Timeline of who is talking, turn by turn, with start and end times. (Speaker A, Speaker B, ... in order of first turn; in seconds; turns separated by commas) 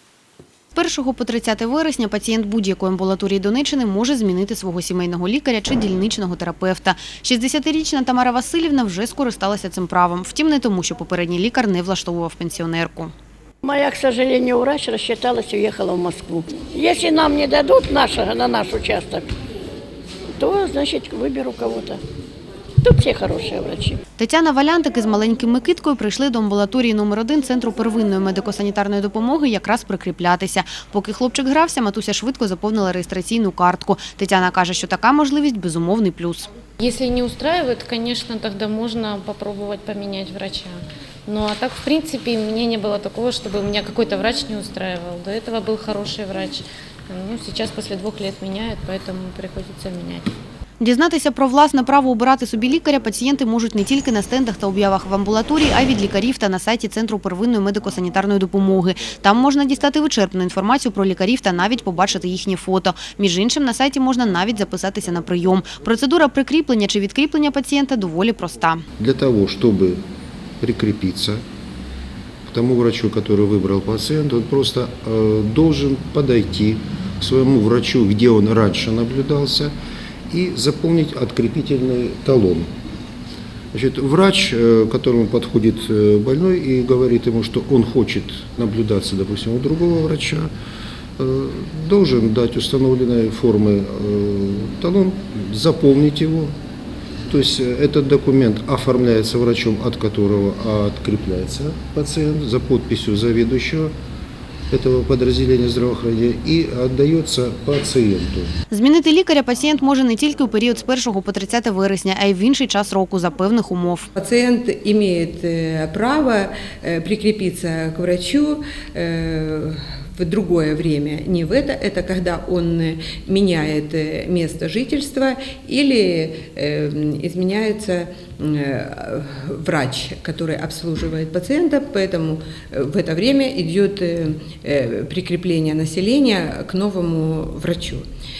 Speaker A: 0.7-13.1, Speaker B: 13.6-19.3, Speaker B: 20.4-22.0, Speaker B: 22.8-24.0, Speaker A: 24.2-36.5, Speaker C: 36.8-50.3, Speaker A: 50.8-68.8, Speaker D: 69.0-70.0, Speaker D: 70.6-71.4, Speaker D: 72.5-79.8, Speaker D: 80.3-82.7, Speaker D: 83.7-90.5, Speaker D: 91.2-96.6, Speaker D: 97.3-103.9, Speaker D: 104.7-108.5, Speaker A: 108.7-114.1, Speaker E: 114.2-138.1